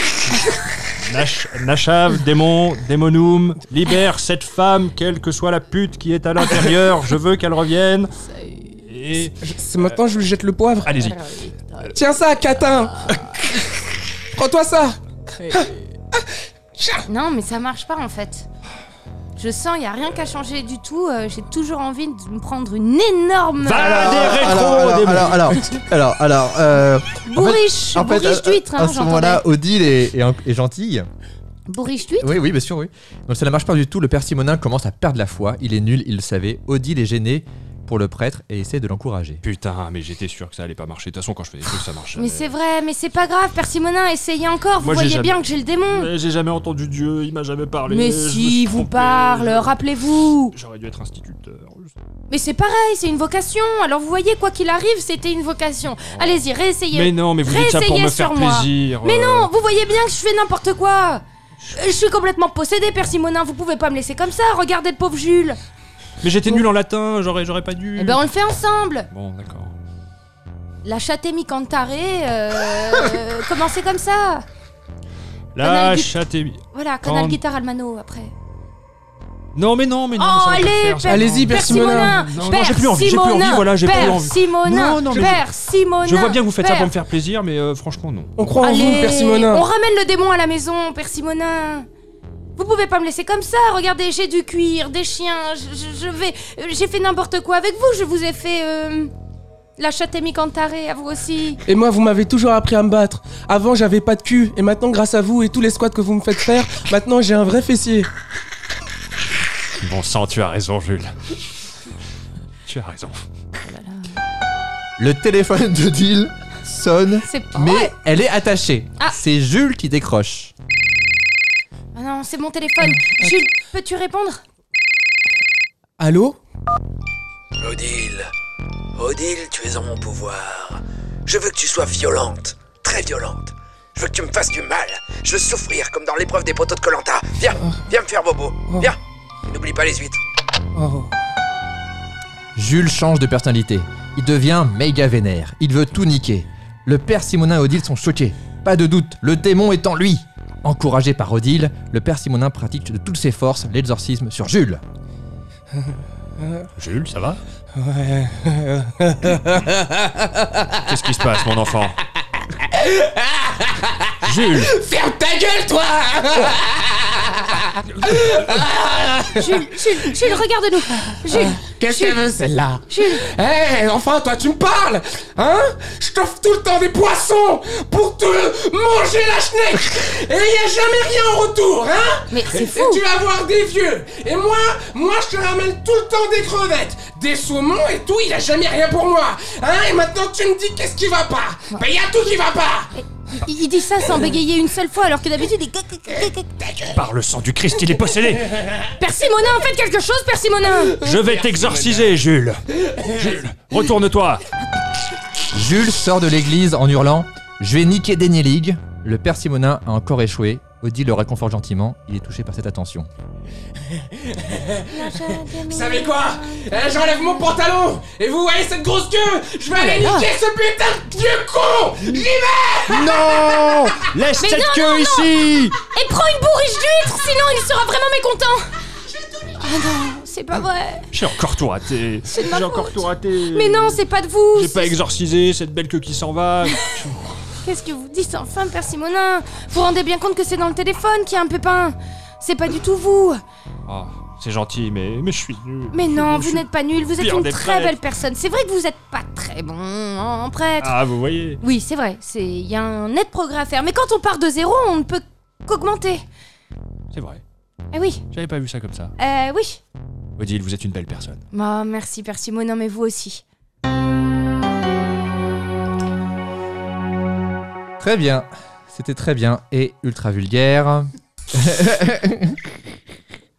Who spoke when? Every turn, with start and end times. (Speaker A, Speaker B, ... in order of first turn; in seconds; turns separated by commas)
Speaker A: 0.3-8.1, Speaker A: 8.7-10.0, Speaker B: 9.4-11.0, Speaker A: 10.8-11.9, Speaker C: 11.0-11.8, Speaker B: 11.9-17.1, Speaker C: 17.1-18.5, Speaker C: 19.4-24.2, Speaker A: 23.6-25.7, Speaker D: 23.8-31.1, Speaker C: 27.3-29.4, Speaker C: 31.7-32.4, Speaker D: 32.2-39.4, Speaker A: 39.4-42.5, Speaker C: 42.2-46.1, Speaker A: 44.8-49.8, Speaker C: 47.9-50.5, Speaker A: 50.5-52.0, Speaker C: 52.3-65.6, Speaker A: 56.1-59.5, Speaker A: 66.2-68.3, Speaker C: 68.0-69.1, Speaker A: 69.1-69.8, Speaker C: 70.8-74.5, Speaker A: 75.5-77.4, Speaker C: 75.6-76.1, Speaker C: 76.7-78.3, Speaker A: 79.5-85.4, Speaker C: 80.2-86.9, Speaker B: 81.1-82.2, Speaker B: 85.1-85.4, Speaker A: 86.0-88.5, Speaker B: 88.4-89.7, Speaker C: 88.6-91.9, Speaker C: 92.6-99.1, Speaker C: 99.8-101.6, Speaker B: 101.7-108.1, Speaker A: 109.8-111.4, Speaker A: 112.7-113.2, Speaker C: 113.6-114.2, Speaker D: 115.0-120.5, Speaker C: 117.2-117.9, Speaker C: 122.0-124.4, Speaker B: 126.0-126.4, Speaker E: 127.6-128.3, Speaker E: 128.9-140.2, Speaker B: 140.8-141.1, Speaker D: 142.6-154.8, Speaker B: 155.8-156.7, Speaker A: 156.8-157.4, Speaker B: 157.7-160.7, Speaker A: 160.8-162.0, Speaker B: 162.6-170.3, Speaker A: 164.2-164.8, Speaker C: 169.3-172.2, Speaker B: 171.1-192.9, Speaker C: 172.9-173.2, Speaker C: 182.3-183.0, Speaker C: 193.0-196.5, Speaker A: 196.9-198.9, Speaker C: 199.0-201.0, Speaker A: 201.0-204.4, Speaker B: 201.2-202.0, Speaker D: 205.5-213.1, Speaker B: 213.9-224.1, Speaker C: 214.9-217.5, Speaker C: 219.8-220.3, Speaker A: 222.9-225.8, Speaker C: 224.4-228.7, Speaker C: 229.6-231.1, Speaker A: 231.1-234.0, Speaker C: 232.3-234.9, Speaker A: 234.5-237.3, Speaker C: 237.6-243.4, Speaker A: 243.9-248.0, Speaker C: 245.9-251.0, Speaker A: 250.8-251.6, Speaker C: 251.6-256.2, Speaker A: 257.1-257.4, Speaker C: 257.9-258.2, Speaker A: 258.3-259.1, Speaker C: 259.2-259.8, Speaker A: 260.4-261.4, Speaker C: 261.5-263.4, Speaker D: 268.0-272.7